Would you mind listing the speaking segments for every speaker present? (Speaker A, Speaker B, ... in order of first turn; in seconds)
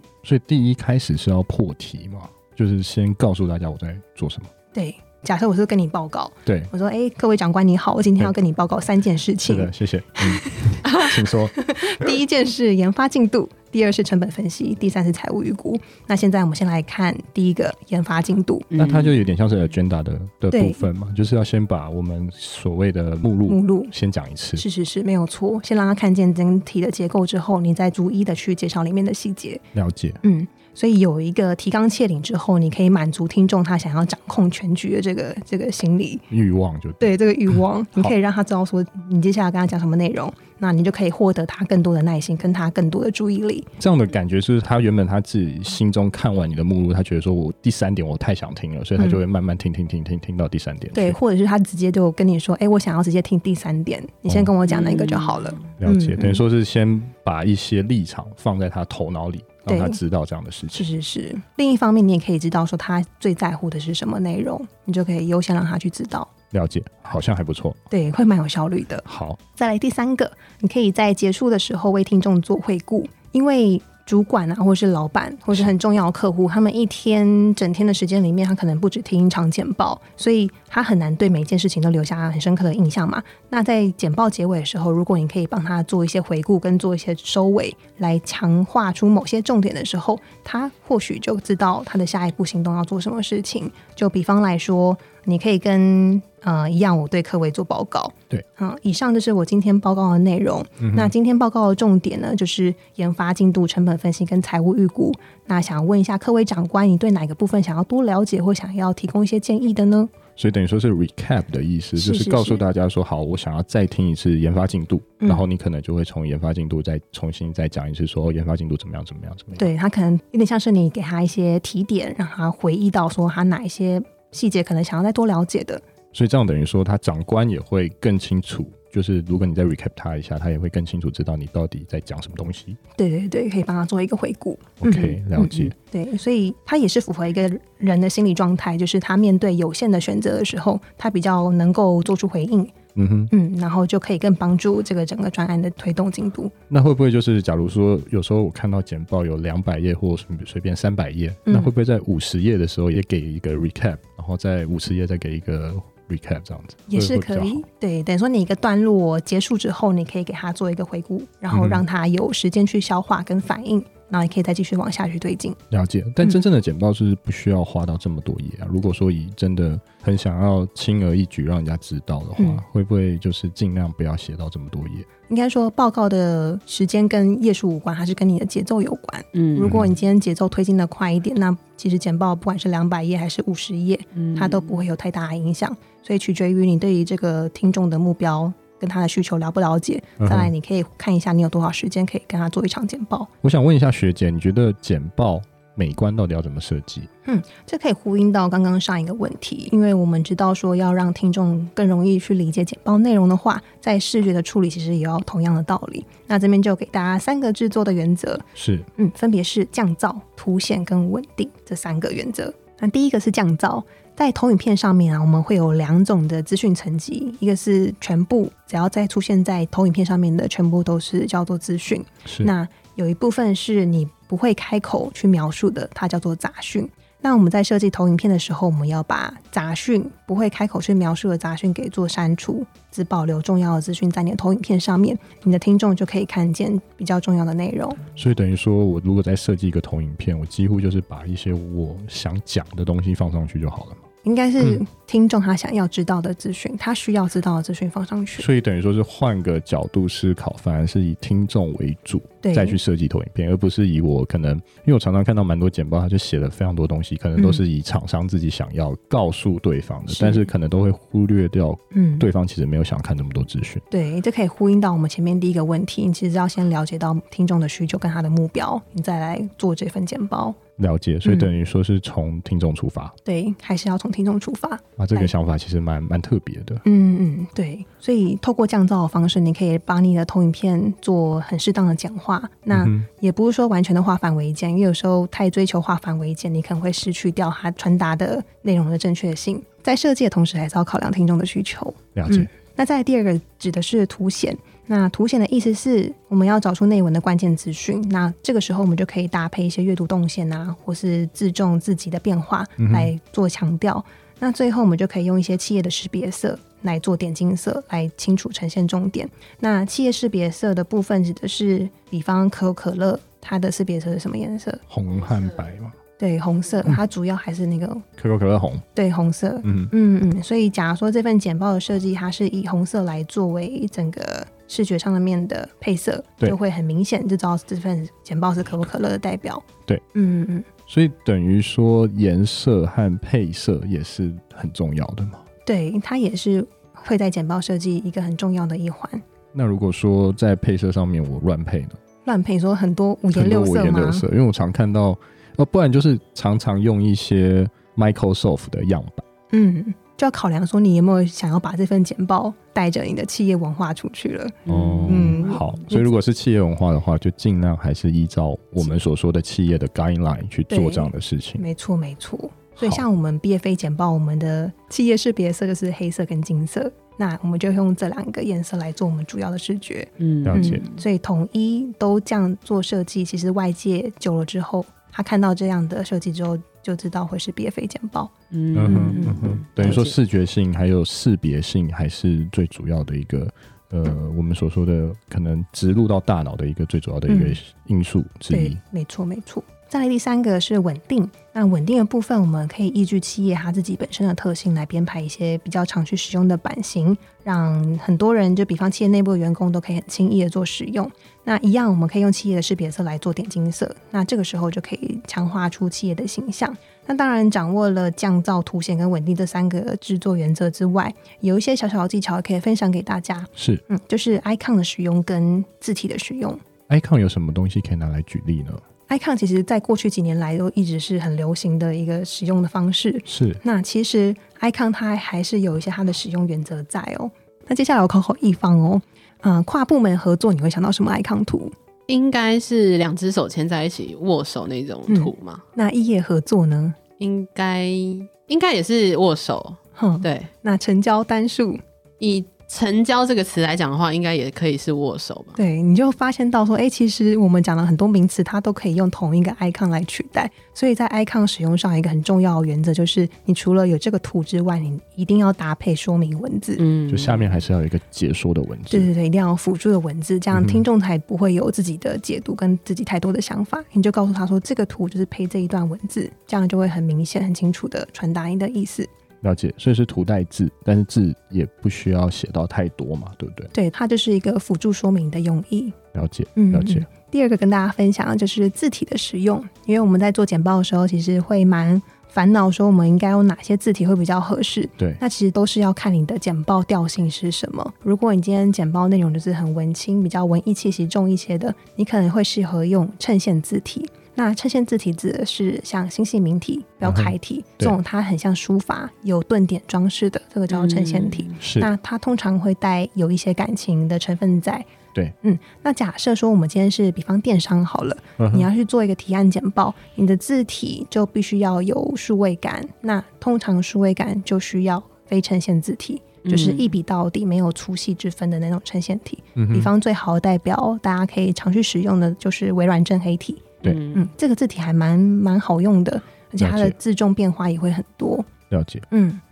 Speaker A: 0.2-4.5, 6.5-6.7, 9.4-11.5, 18.7-24.6, 29.7-30.2, 36.3-37.1, 43.8-51.2, 55.8-60.9, 66.5-67.8, 69.0-69.4, 100.8-101.1, 110.4-119.7, 126.1-132.8, 134.8-135.7, 142.9-143.3, 146.7-157.6, 161.5-161.8, 165.7-175.1, 179.6-179.9, 190.2-190.5, 193.4-197.1, 208.6-208.9, 222.2-222.5, 238.1-244.0, 248.4-263.8, 270.8-273.1, 275.0-276.8, 282.7-283.1, 292.1-292.5, 302.8-303.1, 314.9-315.9, 318.2-318.8, 319.6-319.9, 330.9-335.4, 339.5-342.0, 343.3-349.2, 354.7-361.6, 362.8-363.0, 370.4-370.8, 378.7-388.8, 413.6-413.8, 416.9-418.8, 423.3-423.6, 457.1-459.1, 460.5-460.8, 469.4-473.7, 476.1-477.1, 497.0-498.0, 501.6-501.9, 508.4-508.7, 519.5-519.9, 526.6-527.0, 528.7-529.0
Speaker B: 4.7-18.7, 20.5-20.9, 23.5-23.9, 24.6-29.6, 30.2-36.2, 37.0-43.7, 49.0-49.2, 50.9-56.4, 59.7-60.0, 60.7-66.3, 67.9-110.1, 112.0-112.6, 115.2-115.4, 119.6-125.8, 132.9-142.7, 143.3-146.5, 151.5-151.7, 156.9-165.6, 175.3-193.3, 197.2-238.0, 244.2-248.5, 252.4-252.8, 257.4-257.6, 260.1-260.5, 261.9-262.3, 263.9-270.6, 271.2-271.5, 273.2-275.3, 276.8-314.8, 316.2-318.0, 318.9-330.7, 335.6-339.2, 342.2-344.2, 349.5-356.1, 360.7-378.3, 378.9-379.3, 387.3-387.6, 388.5-416.6, 419.1-431.7, 435.1-436.9, 440.0-441.8, 445.6-456.8, 458.9-469.1, 473.7-476.0, 476.6-504.9, 505.4-528.5, 529.1-529.4
Speaker C: 18.7-19.2, 54.7-55.6, 179.3-179.7, 184.1-184.7, 354.6-355.6, 370.2-371.0, 378.5-380.1, 432.1-435.6, 437.2-440.5, 442.2-445.6, 456.8-457.5, 500.7-501.6, 516.4-516.9, 523.8-524.3